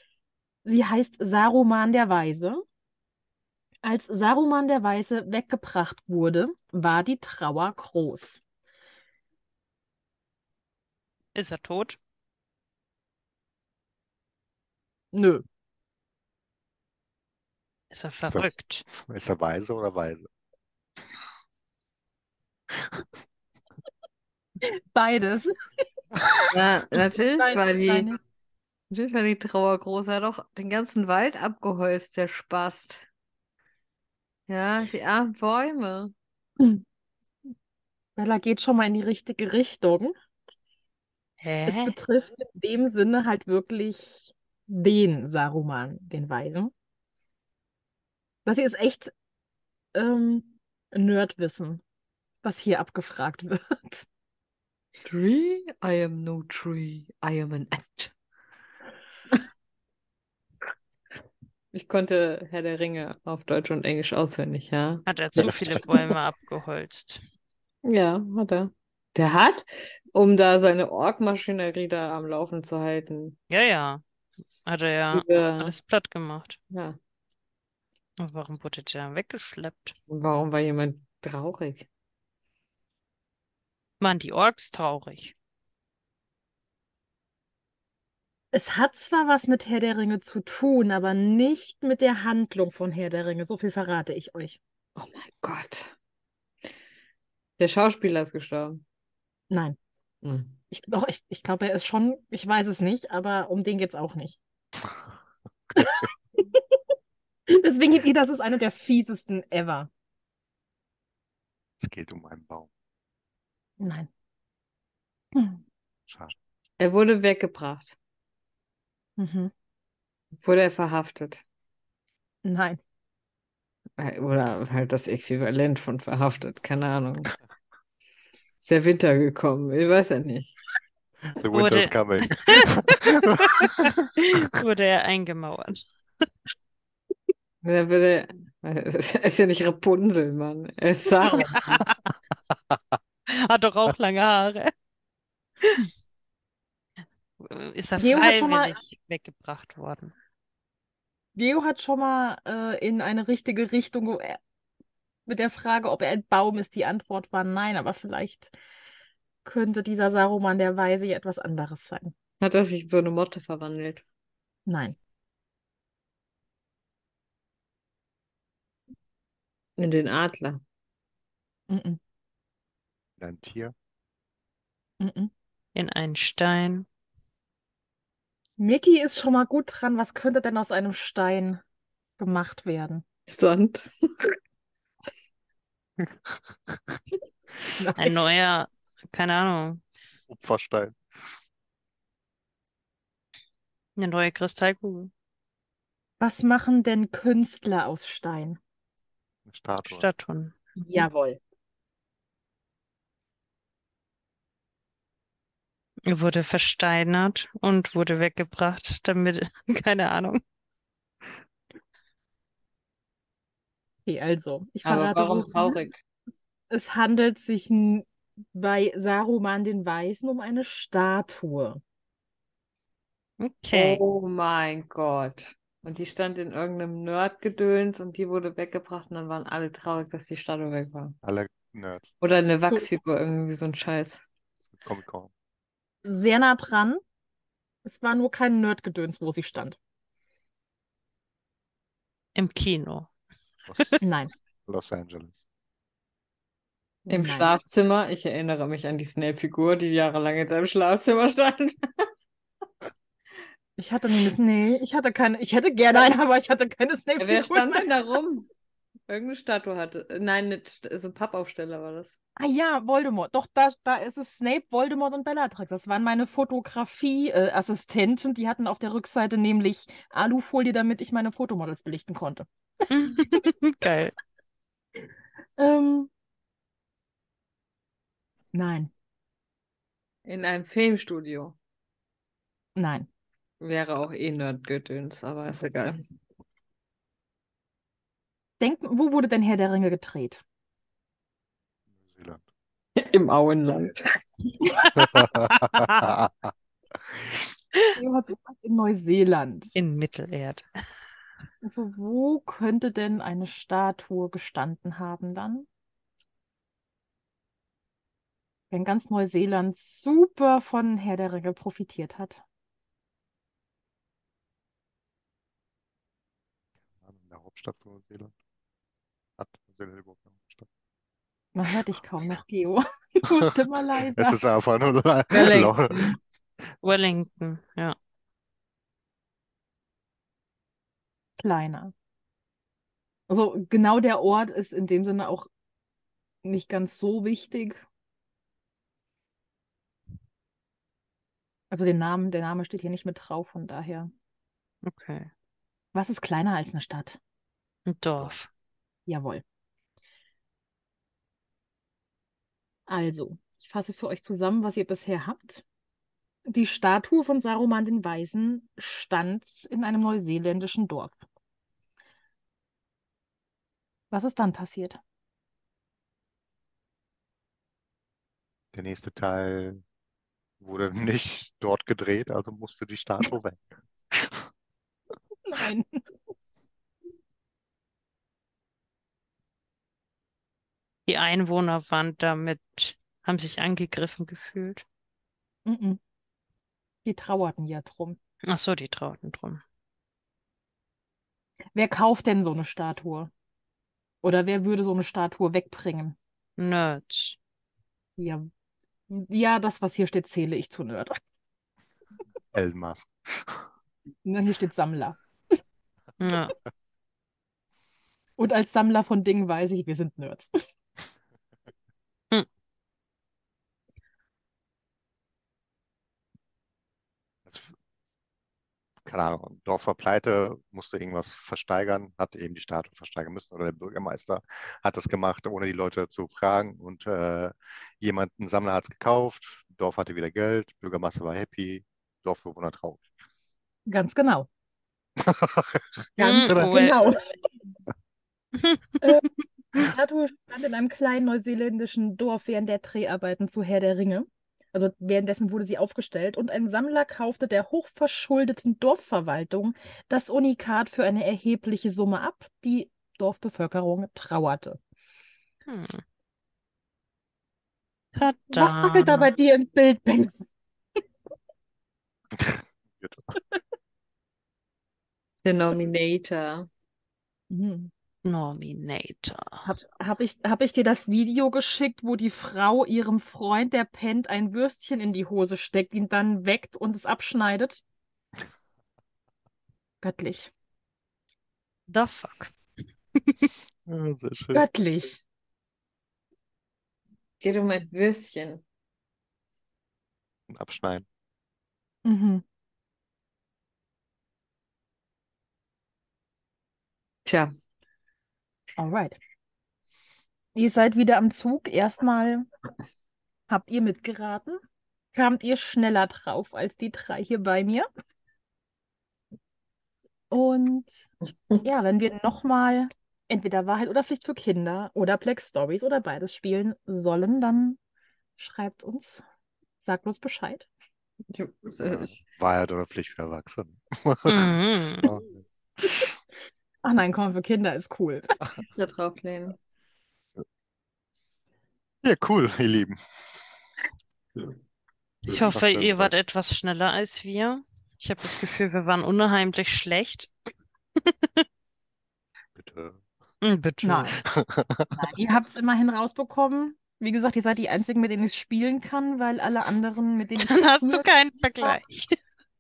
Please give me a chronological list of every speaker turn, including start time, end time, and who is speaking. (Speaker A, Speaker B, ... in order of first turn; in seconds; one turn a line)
Speaker A: 0.7-2.6
Speaker A: 3.8-8.4
Speaker B: 11.3-12.0
Speaker A: 15.1-15.4
Speaker B: 17.9-18.9
Speaker C: 18.2-20.3
Speaker C: 22.8-23.0
Speaker A: 24.9-25.5
Speaker D: 26.5-28.1
Speaker A: 27.4-28.2
Speaker D: 28.9-33.0
Speaker D: 34.5-36.1
Speaker A: 38.2-40.1
Speaker B: 41.4-42.0
Speaker A: 41.7-46.7
Speaker A: 48.5-49.1
Speaker A: 49.9-51.8
Speaker A: 52.4-54.1
Speaker D: 55.1-58.1
Speaker D: 61.7-65.8
Speaker B: 65.1-67.2
Speaker D: 67.8-73.4
Speaker B: 73.5-74.0
Speaker B: 74.7-76.6
Speaker D: 75.1-75.7
Speaker D: 76.7-77.0
Speaker B: 78.2-80.0
Speaker D: 80.1-81.9
Speaker B: 84.0-85.3
Speaker A: 88.5-94.6
Speaker D: 95.0-95.9
Speaker D: 97.6-98.8
Speaker A: 99.5-99.8
Speaker D: 100.2-100.6
Speaker A: 100.7-104.4
Speaker A: 105.8-106.6
Speaker A: 107.5-109.9
Speaker C: 111.8-112.7
Speaker A: 113.8-114.1
Speaker A: 115.3-115.6
Speaker C: 116.1-116.3
Speaker D: 116.8-118.0
Speaker A: 119.2-119.5
Speaker D: 120.4-121.4
Speaker A: 122.4-122.8
Speaker D: 124.0-127.3
Speaker D: 128.6-130.5
Speaker C: 131.4-133.9
Speaker B: 131.5-135.8
Speaker D: 137.6-141.7
Speaker B: 141.4-142.0
Speaker B: 143.3-144.7
Speaker B: 147.4-150.1
Speaker A: 148.0-148.8
Speaker A: 151.4-154.4
Speaker A: 155.3-158.5
Speaker A: 159.4-162.1
Speaker D: 162.4-164.1
Speaker A: 164.7-165.0
Speaker D: 169.8-170.6
Speaker A: 171.7-172.0
Speaker C: 173.2-173.7
Speaker A: 175.0-175.3
Speaker B: 175.8-176.9
Speaker A: 178.6-181.6
Speaker A: 182.2-183.0
Speaker D: 183.3-184.3
Speaker C: 186.0-187.0
Speaker A: 187.8-188.1
Speaker B: 188.0-189.8
Speaker C: 190.3-191.0
Speaker B: 194.0-195.1
Speaker A: 196.2-198.6
Speaker C: 199.5-200.1
Speaker B: 199.8-200.5
Speaker A: 200.8-201.4
Speaker B: 206.1-210.4
Speaker A: 214.1-215.8
Speaker D: 214.8-216.0
Speaker A: 216.7-221.8
Speaker B: 223.4-224.0
Speaker D: 223.7-231.2
Speaker C: 231.2-232.1
Speaker D: 232.2-234.3
Speaker C: 234.7-235.3
Speaker A: 236.1-237.0
Speaker A: 237.8-239.8
Speaker B: 242.4-243.1
Speaker C: 243.7-243.9
Speaker A: 244.0-244.3
Speaker C: 244.7-245.4
Speaker D: 247.1-251.8
Speaker A: 247.1-247.5
Speaker A: 253.8-257.9
Speaker D: 257.2-258.5
Speaker D: 259.1-262.1
Speaker A: 262.4-272.5
Speaker B: 272.9-274.1
Speaker A: 273.1-273.4
Speaker A: 275.6-276.1
Speaker A: 278.5-278.9
Speaker D: 280.3-281.6
Speaker A: 282.8-283.1
Speaker D: 283.6-286.1
Speaker A: 288.6-290.4
Speaker C: 292.0-292.4
Speaker D: 293.0-294.2
Speaker C: 295.0-296.3
Speaker B: 295.5-296.1
Speaker A: 297.9-299.7
Speaker B: 299.8-300.6
Speaker A: 301.6-305.7
Speaker A: 308.7-312.4
Speaker C: 317.0-318.3
Speaker C: 319.4-320.7
Speaker A: 321.5-324.4
Speaker C: 323.9-326.2
Speaker D: 325.3-326.2
Speaker B: 326.8-328.0
Speaker A: 331.4-331.9
Speaker A: 333.3-335.5
Speaker A: 336.4-337.8
Speaker A: 341.7-344.1
Speaker B: 344.8-345.3
Speaker A: 345.9-347.2
Speaker B: 347.9-348.5
Speaker A: 349.1-349.4
Speaker A: 352.9-355.6
Speaker A: 356.5-361.2
Speaker A: 364.1-365.0
Speaker C: 368.7-369.8
Speaker C: 370.6-374.5
Speaker A: 375.5-376.0
Speaker B: 381.1-384.8
Speaker A: 385.7-386.0
Speaker A: 387.1-388.2
Speaker B: 388.4-389.6
Speaker A: 391.8-393.3
Speaker A: 394.2-396.2
Speaker B: 396.6-397.4
Speaker A: 398.2-398.5
Speaker A: 399.1-401.2
Speaker C: 402.5-403.7
Speaker A: 404.2-405.2
Speaker B: 406.2-406.5
Speaker A: 408.4-410.5
Speaker C: 417.5-417.7
Speaker C: 419.0-433.0
Speaker A: 433.9-434.5
Speaker C: 435.2-436.7
Speaker A: 436.2-437.3
Speaker B: 436.2-437.1
Speaker B: 438.6-438.9
Speaker A: 439.0-454.8
Speaker B: 455.7-456.0
Speaker B: 458.1-459.3
Speaker A: 458.5-460.4
Speaker C: 462.3-463.3
Speaker D: 465.4-466.7
Speaker A: 467.5-467.9
Speaker B: 468.2-469.7
Speaker A: 469.7-477.8
Speaker A: 480.0-480.5
Speaker B: 481.9-482.5
Speaker B: 483.2-483.5
Speaker C: 483.9-484.7
Speaker A: 484.5-485.2
Speaker D: 487.4-488.6
Speaker C: 490.5-491.1
Speaker A: 492.1-492.4
Speaker D: 497.3-497.5
Speaker A: 498.8-499.2
Speaker A: 500.6-502.5
Speaker A: 503.5-504.6
Speaker A: 505.1-507.9
Speaker A: 510.3-510.9
Speaker A: 511.6-517.8
Speaker A: 518.4-519.2
Speaker A: 519.8-520.7
Speaker D: 521.3-522.2
Speaker C: 521.8-525.4
Speaker B: 524.3-525.1
Speaker A: 526.8-528.4
Speaker D: 528.7-529.6
Speaker C: 532.0-533.0
Speaker C: 535.3-536.1
Speaker B: 535.3-540.3
Speaker B: 541.0-541.5
Speaker C: 542.6-543.0
Speaker B: 543.4-544.1
Speaker A: 543.8-544.2
Speaker C: 544.2-545.1
Speaker A: 545.0-551.8
Speaker B: 550.4-552.1